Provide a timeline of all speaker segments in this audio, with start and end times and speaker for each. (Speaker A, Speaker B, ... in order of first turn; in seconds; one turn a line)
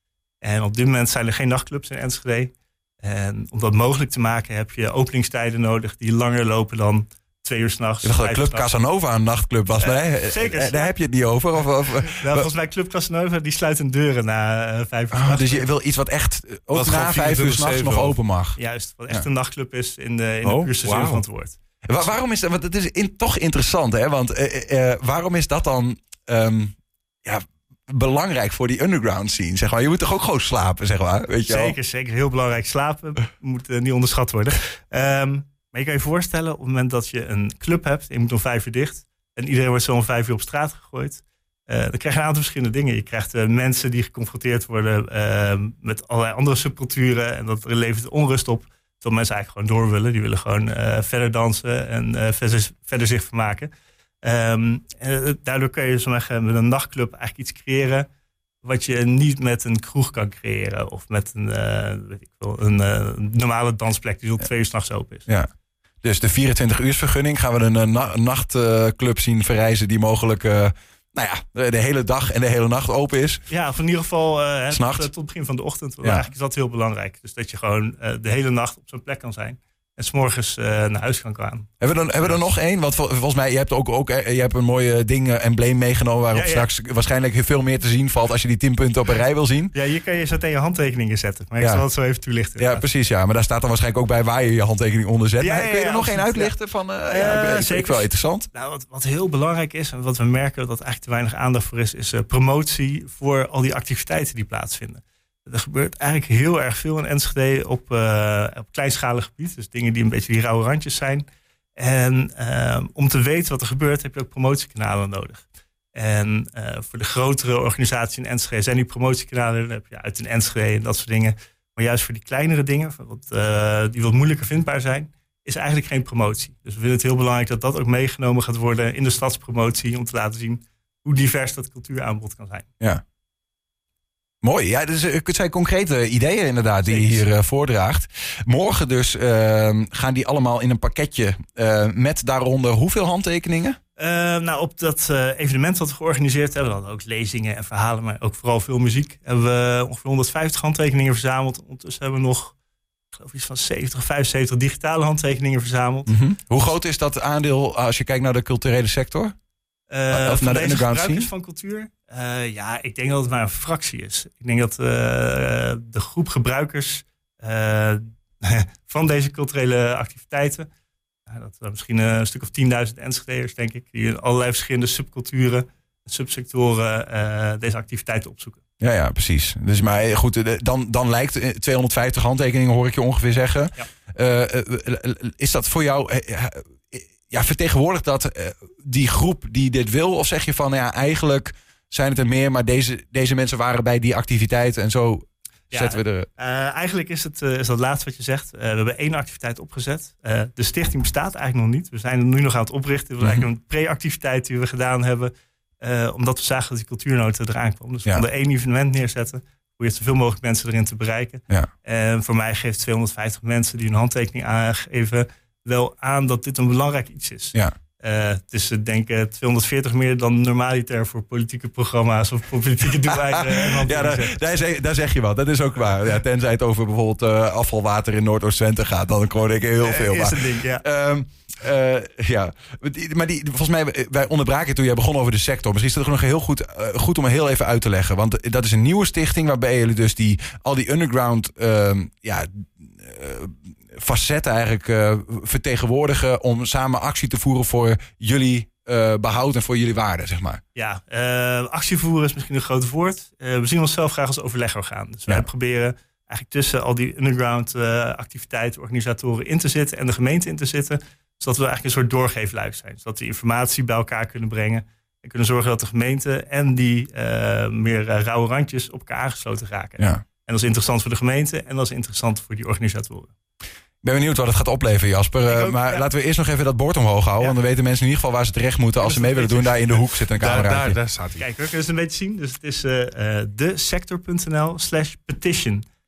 Speaker A: 0.4-8.8
Speaker B: 8.0-12.5
Speaker A: 9.8-10.9
Speaker A: 12.0-15.7
Speaker B: 15.1-18.6
Speaker C: 16.7-18.2
Speaker A: 18.6-22.1
Speaker C: 20.4-21.2
Speaker B: 21.9-31.7
Speaker A: 31.4-53.7
Speaker A: 54.2-58.1
Speaker A: 58.6-65.3
Speaker B: 66.0-73.4
Speaker A: 73.5-82.4
Speaker B: 74.7-75.1
Speaker B: 76.0-76.3
Speaker B: 81.8-89.7
Speaker A: 86.3-86.7
Speaker A: 89.7-92.8
Speaker B: 91.6-91.8
Speaker B: 92.6-98.5
Speaker A: 95.4-111.2
Speaker A: 111.8-132.7
Speaker B: 134.4-143.8
Speaker A: 136.8-137.2
Speaker A: 144.0-152.5
Speaker A: 153.1-156.1
Speaker B: 156.1-159.3
Speaker A: 159.9-170.7
Speaker B: 160.1-161.3
Speaker A: 171.3-178.6
Speaker B: 178.8-196.3
Speaker A: 195.7-224.4
Speaker B: 203.2-203.5
Speaker B: 223.1-250.6
Speaker A: 229.8-230.8
Speaker A: 250.7-273.3
Speaker B: 270.0-270.2
Speaker B: 274.0-281.0
Speaker A: 275.4-276.1
Speaker A: 279.0-280.0
Speaker C: 280.4-281.4
Speaker A: 281.4-285.8